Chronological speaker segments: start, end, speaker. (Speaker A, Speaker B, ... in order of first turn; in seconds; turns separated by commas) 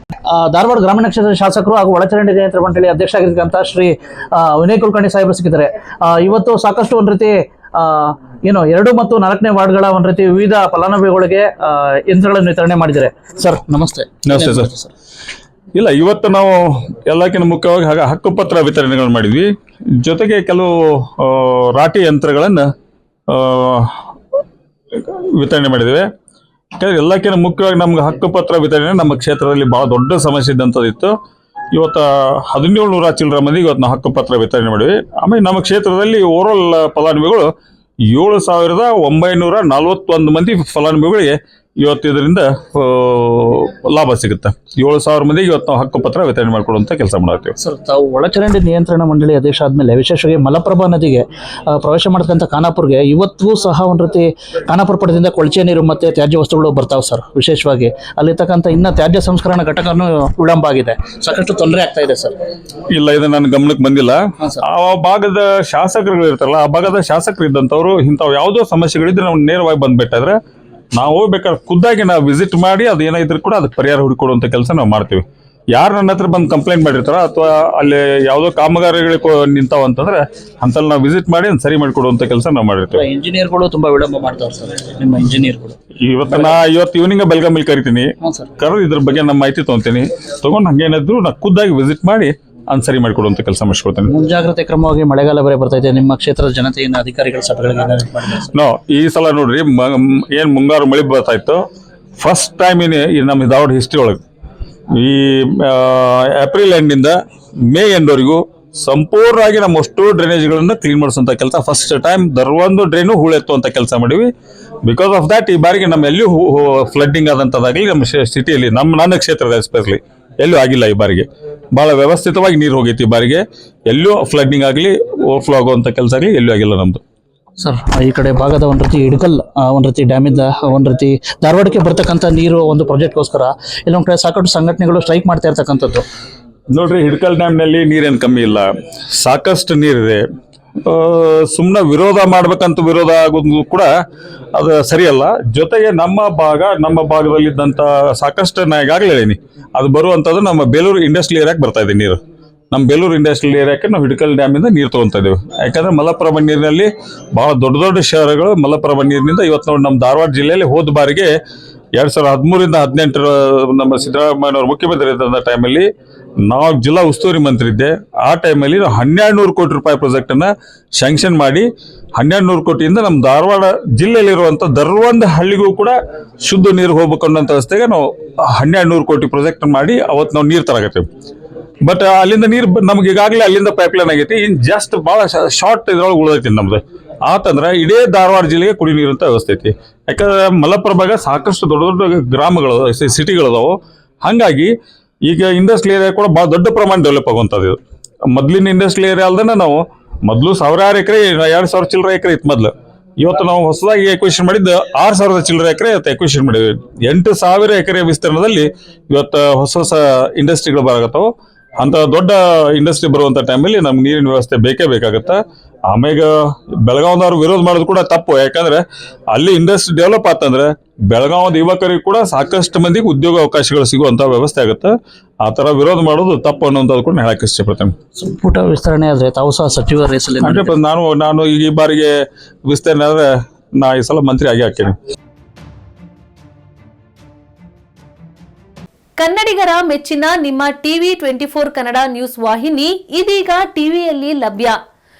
Speaker A: 0.3-14.9, Speaker B: 14.2-14.7, Speaker B: 15.7-22.7, Speaker B: 23.3-24.1, Speaker B: 24.9-26.1, Speaker B: 26.8-31.1, Speaker B: 31.7-37.5, Speaker B: 38.1-47.5, Speaker A: 47.6-62.4, Speaker B: 62.9-70.3, Speaker B: 70.9-83.0, Speaker A: 82.9-85.8, Speaker B: 86.0-94.1, Speaker A: 86.3-86.6, Speaker A: 88.2-88.5, Speaker A: 94.1-98.5, Speaker B: 98.5-101.6, Speaker B: 102.2-104.2, Speaker B: 104.9-114.3, Speaker B: 114.8-127.0, Speaker A: 127.6-136.0, Speaker B: 136.7-140.2, Speaker B: 140.8-143.9, Speaker B: 144.5-152.2, Speaker B: 152.7-161.3, Speaker B: 161.9-165.9, Speaker B: 166.4-181.1, Speaker B: 181.8-194.7, Speaker B: 195.3-197.8, Speaker B: 198.3-227.9, Speaker A: 228.2-230.7, Speaker B: 230.4-232.1, Speaker B: 232.7-234.9, Speaker C: 239.2-244.8